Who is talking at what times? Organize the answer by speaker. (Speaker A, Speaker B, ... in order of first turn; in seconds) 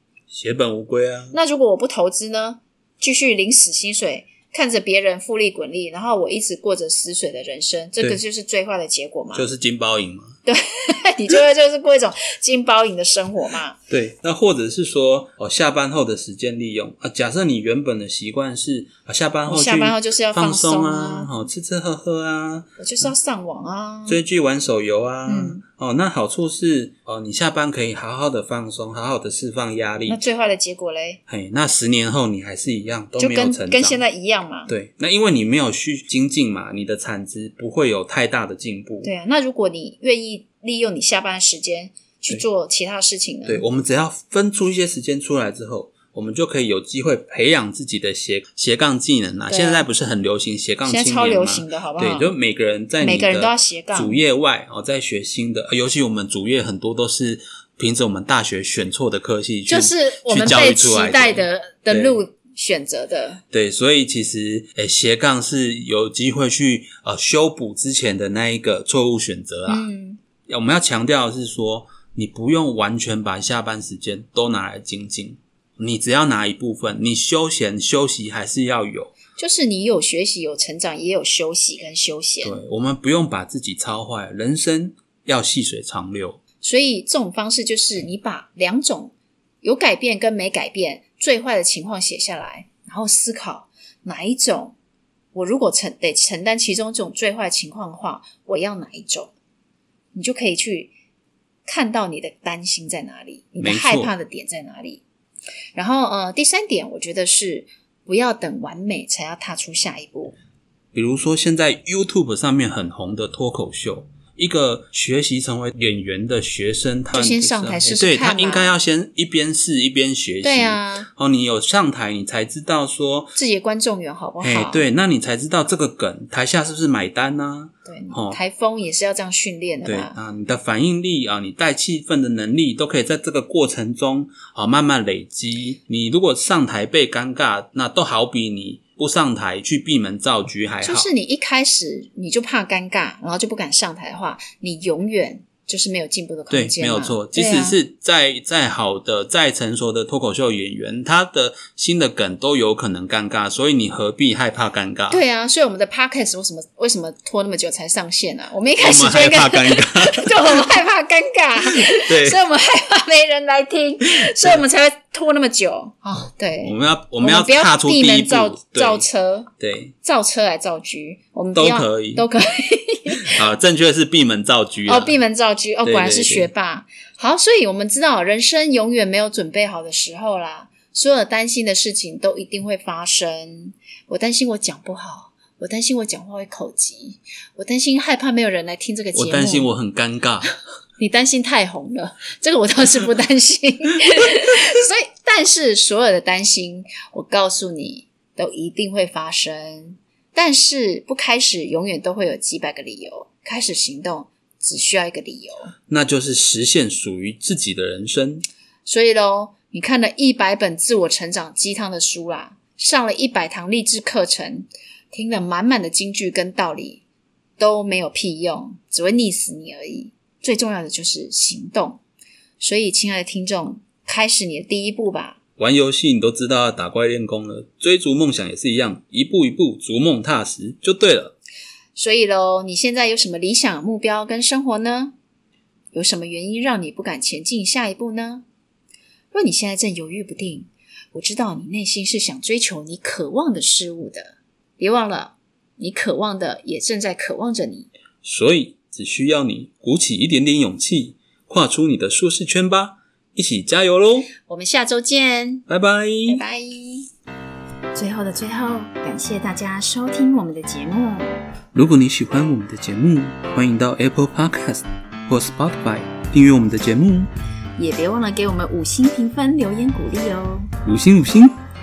Speaker A: 0.3-1.4, 9.3-10.3, 13.9-22.7, 24.1-30.2, 31.3-34.0, 34.7-39.1, 43.5-62.2, 63.5-69.9, 70.5-79.2, 82.4-86.4, 103.6-104.1, 110.9-123.4, 124.4-128.4, 129.8-141.1, 146.5-155.2, 158.8-160.8, 161.7-162.4, 164.2-164.6, 166.6-169.1, 169.6-169.9, 171.5-172.2, 173.2-175.2, 175.8-176.5, 189.1-190.5, 205.9-208.4, 225.6-231.3, 248.2-254.3, 255.7-256.4, 261.7-267.3, 270.8-271.6
Speaker B: 1.3-9.5, 10.4-13.8, 19.5-21.3, 22.8-24.2, 25.3-25.6, 30.1-31.2, 33.2-34.7, 39.0-43.6, 49.5-49.9, 50.9-52.3, 53.0-54.2, 59.7-63.4, 69.7-70.2, 79.3-82.6, 86.6-94.8, 95.3-99.3, 100.1-100.9, 101.7-105.0, 105.7-110.3, 117.1-118.8, 120.4-121.1, 123.3-124.9, 127.8-130.2, 140.8-147.8, 155.1-169.5, 170.0-173.4, 174.9-189.7, 191.0-205.7, 208.8-217.0, 217.6-222.0, 222.6-225.4, 231.9-235.1, 235.9-238.4, 239.3-247.9, 254.3-255.6, 256.3-257.1, 257.9-261.3, 267.8-270.7